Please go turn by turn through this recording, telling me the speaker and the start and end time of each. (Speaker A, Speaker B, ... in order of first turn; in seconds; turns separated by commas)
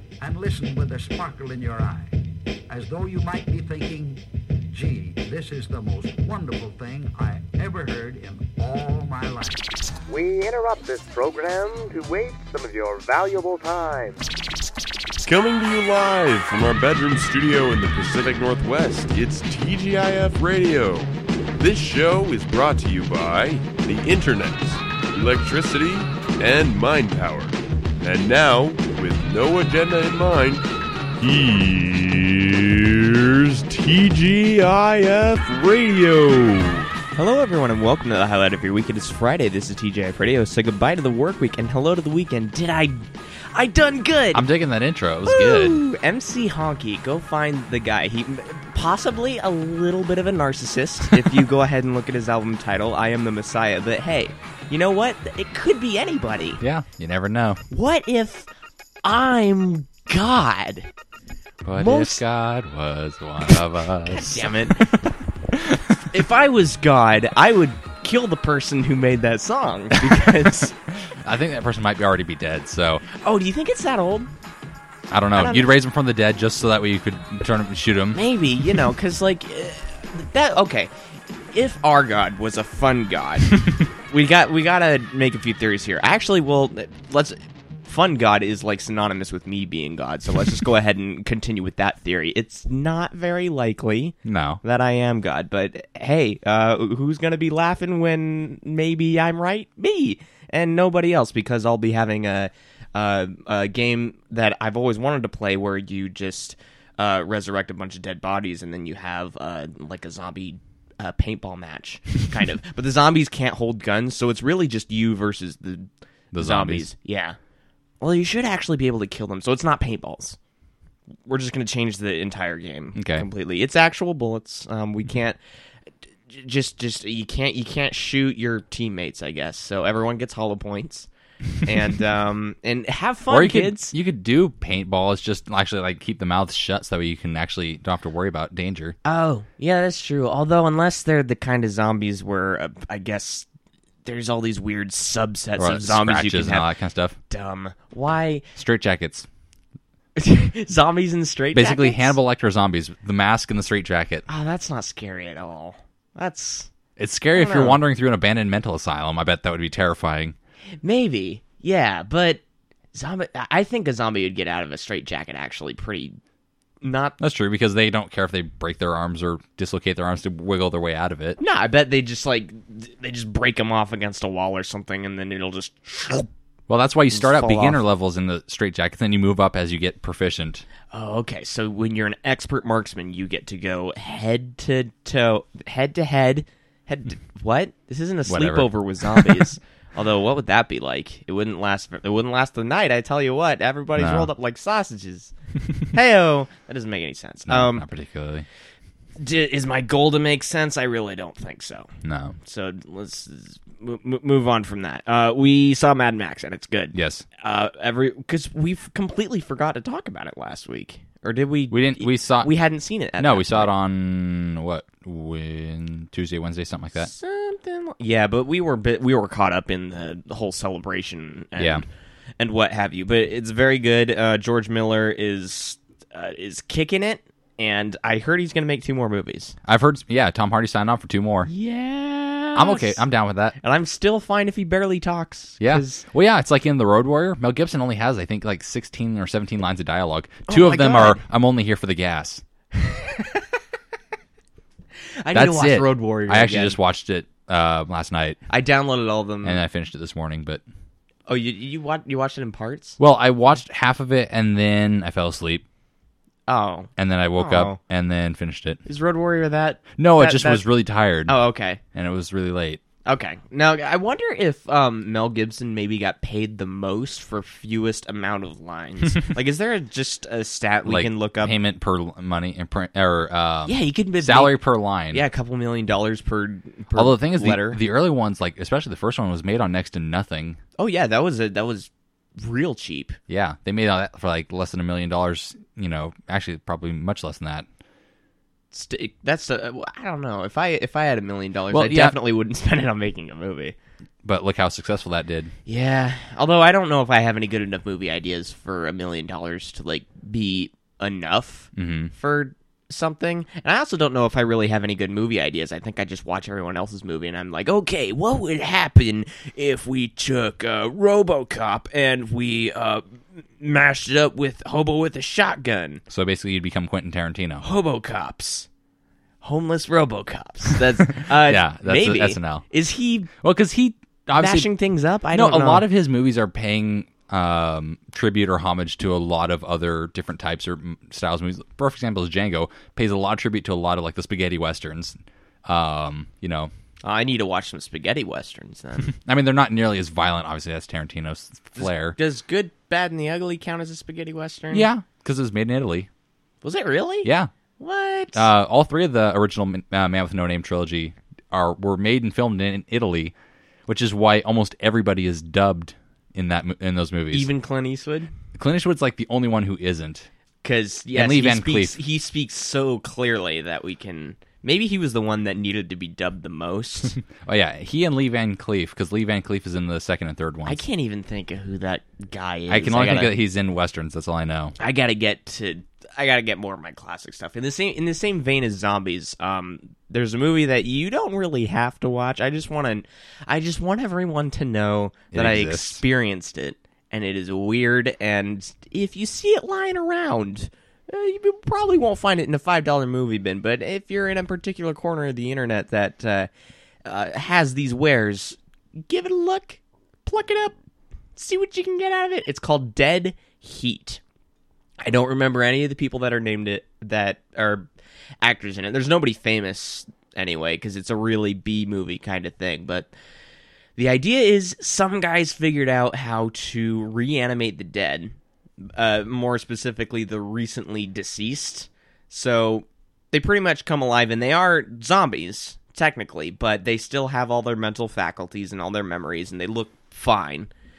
Speaker A: 0.2-2.1, Speaker A: 2.7-9.7, Speaker B: 10.1-14.2, Speaker C: 15.2-36.9, Speaker D: 37.1-44.5, Speaker E: 44.3-45.8, Speaker D: 45.2-56.6, Speaker E: 56.6-57.6, Speaker D: 57.7-58.5, Speaker D: 59.0-60.9, Speaker E: 61.6-66.0, Speaker D: 61.8-62.2, Speaker D: 63.5-65.1, Speaker D: 66.0-70.7, Speaker E: 69.9-73.0, Speaker D: 73.1-74.3, Speaker E: 75.1-78.2, Speaker D: 75.3-75.7, Speaker D: 78.1-80.9, Speaker D: 81.5-117.4, Speaker E: 94.2-94.6, Speaker E: 116.3-116.9, Speaker D: 118.0-120.4, Speaker D: 121.2-125.4, Speaker E: 122.9-123.3, Speaker D: 126.3-131.1, Speaker D: 131.6-133.9, Speaker E: 133.3-138.9, Speaker D: 139.0-143.5, Speaker D: 144.0-146.7, Speaker E: 145.6-147.2, Speaker D: 147.3-148.4, Speaker E: 148.6-149.3, Speaker D: 150.2-152.2, Speaker E: 151.5-154.2, Speaker D: 154.3-156.7, Speaker E: 157.0-160.3, Speaker D: 157.3-157.8, Speaker D: 160.8-162.4, Speaker D: 162.9-166.2, Speaker D: 166.8-167.2, Speaker E: 167.2-171.4, Speaker D: 171.4-176.3, Speaker E: 176.7-180.7, Speaker D: 177.1-177.8, Speaker D: 180.9-195.3, Speaker E: 188.3-189.4, Speaker E: 193.9-194.3, Speaker D: 195.9-197.9, Speaker E: 197.5-198.4, Speaker D: 199.2-201.9, Speaker E: 202.0-202.3, Speaker D: 202.4-213.7, Speaker E: 206.9-207.2, Speaker E: 211.7-212.5, Speaker E: 213.2-217.1, Speaker D: 216.9-221.8, Speaker E: 221.6-221.8, Speaker D: 222.4-229.5, Speaker E: 229.6-231.5, Speaker D: 231.4-233.0, Speaker E: 232.5-233.6, Speaker D: 233.6-236.0, Speaker E: 235.6-242.4, Speaker D: 240.5-241.2, Speaker D: 242.7-243.4, Speaker D: 245.2-246.8, Speaker E: 245.3-248.4, Speaker D: 248.5-249.6, Speaker E: 249.4-250.6, Speaker D: 251.3-253.0, Speaker E: 253.0-255.6, Speaker D: 256.5-257.8, Speaker E: 257.0-258.8, Speaker D: 258.9-260.6, Speaker E: 260.0-261.4, Speaker D: 261.3-261.8, Speaker E: 261.9-262.8, Speaker D: 263.1-271.6, Speaker E: 270.9-275.2, Speaker D: 273.6-274.6, Speaker D: 275.1-277.8, Speaker E: 276.9-280.6, Speaker D: 280.8-283.2, Speaker E: 283.3-287.6, Speaker D: 288.7-293.8, Speaker E: 291.7-292.2, Speaker E: 294.2-295.5, Speaker D: 295.6-316.0, Speaker E: 301.7-302.1, Speaker E: 316.1-317.6, Speaker D: 317.6-318.7, Speaker D: 319.4-323.3, Speaker E: 321.2-322.6, Speaker E: 323.4-324.7, Speaker D: 324.4-325.8, Speaker E: 325.3-336.7, Speaker D: 337.0-339.1, Speaker E: 339.1-342.2, Speaker D: 341.8-344.9, Speaker E: 344.7-346.1, Speaker D: 346.6-348.5, Speaker E: 347.2-347.5, Speaker E: 348.3-353.3, Speaker E: 353.9-357.5, Speaker D: 357.3-358.3, Speaker E: 358.5-360.3, Speaker D: 360.6-367.2, Speaker E: 361.1-362.0, Speaker E: 367.3-370.8, Speaker D: 370.6-373.3, Speaker E: 372.7-374.8, Speaker D: 374.8-396.5, Speaker E: 385.3-386.0, Speaker D: 397.0-400.7, Speaker D: 401.4-404.2, Speaker D: 405.0-407.9, Speaker D: 408.4-413.1, Speaker D: 414.0-430.7